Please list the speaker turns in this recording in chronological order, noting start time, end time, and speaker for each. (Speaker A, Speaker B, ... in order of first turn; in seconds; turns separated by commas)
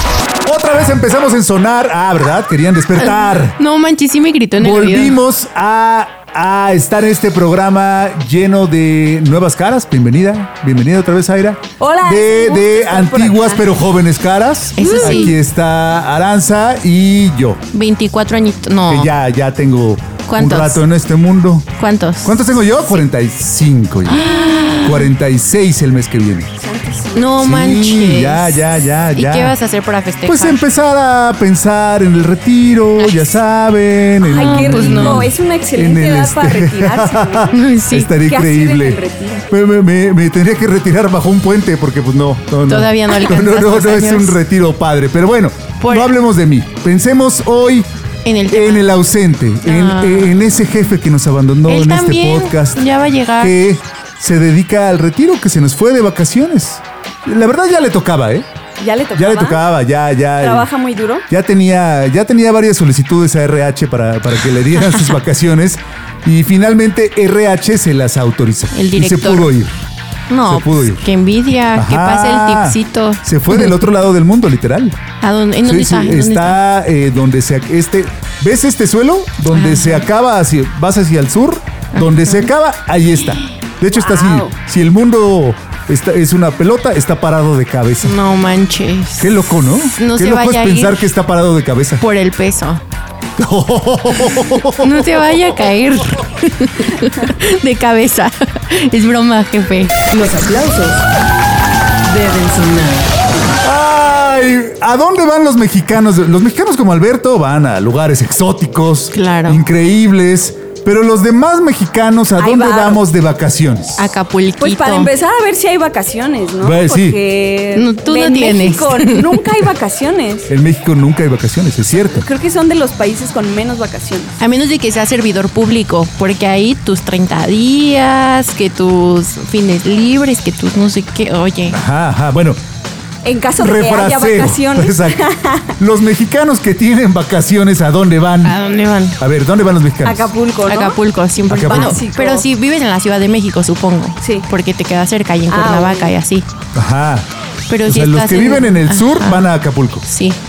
Speaker A: 0.4-3.5, Speaker B: 3.0-5.2, Speaker A: 4.6-17.6, Speaker C: 11.8-13.6, Speaker B: 14.8-15.3, Speaker C: 14.9-15.2, Speaker B: 17.7-19.1, Speaker A: 18.9-21.7, Speaker B: 20.2-20.8, Speaker B: 21.8-22.9, Speaker A: 22.2-26.5, Speaker B: 24.1-25.1, Speaker C: 26.6-27.4, Speaker B: 27.1-30.6, Speaker A: 27.4-29.6, Speaker A: 30.2-47.9, Speaker B: 33.0-33.3, Speaker C: 34.2-37.6, Speaker B: 34.4-35.3, Speaker B: 37.5-38.1, Speaker C: 38.2-39.5, Speaker B: 42.6-44.4, Speaker B: 45.8-46.1, Speaker B: 48.2-48.9, Speaker A: 48.5-52.8, Speaker B: 49.6-50.4, Speaker B: 51.7-53.5, Speaker A: 53.4-58.5, Speaker C: 58.8-59.6, Speaker A: 59.1-60.7, Speaker C: 60.4-61.2, Speaker A: 61.3-69.8, Speaker B: 68.7-69.5, Speaker B: 70.3-73.8, Speaker A: 70.5-71.1, Speaker A: 71.7-75.0, Speaker B: 75.2-76.6, Speaker A: 75.6-88.2, Speaker B: 79.5-80.1, Speaker B: 81.9-82.5, Speaker C: 83.9-84.5, Speaker B: 88.0-91.1, Speaker A: 89.2-92.0, Speaker B: 92.0-92.8, Speaker A: 93.4-95.4, Speaker B: 94.7-100.0, Speaker D: 100.1-101.0, Speaker D: 102.0-103.1, Speaker A: 103.6-114.2, Speaker B: 109.1-109.6, Speaker C: 112.4-113.0, Speaker B: 114.0-115.1, Speaker C: 114.6-120.5, Speaker A: 116.6-117.2, Speaker B: 117.7-119.4, Speaker A: 120.5-122.2, Speaker C: 122.1-124.3, Speaker B: 124.4-131.8, Speaker A: 131.7-132.6, Speaker C: 133.2-135.7, Speaker A: 133.6-138.6, Speaker B: 138.4-139.2, Speaker A: 139.2-140.3, Speaker C: 140.0-142.4, Speaker B: 140.6-146.4, Speaker A: 141.4-142.0, Speaker C: 144.2-144.5, Speaker C: 145.5-146.1, Speaker A: 146.7-147.3, Speaker B: 147.7-149.5, Speaker A: 147.8-150.1, Speaker B: 150.1-150.4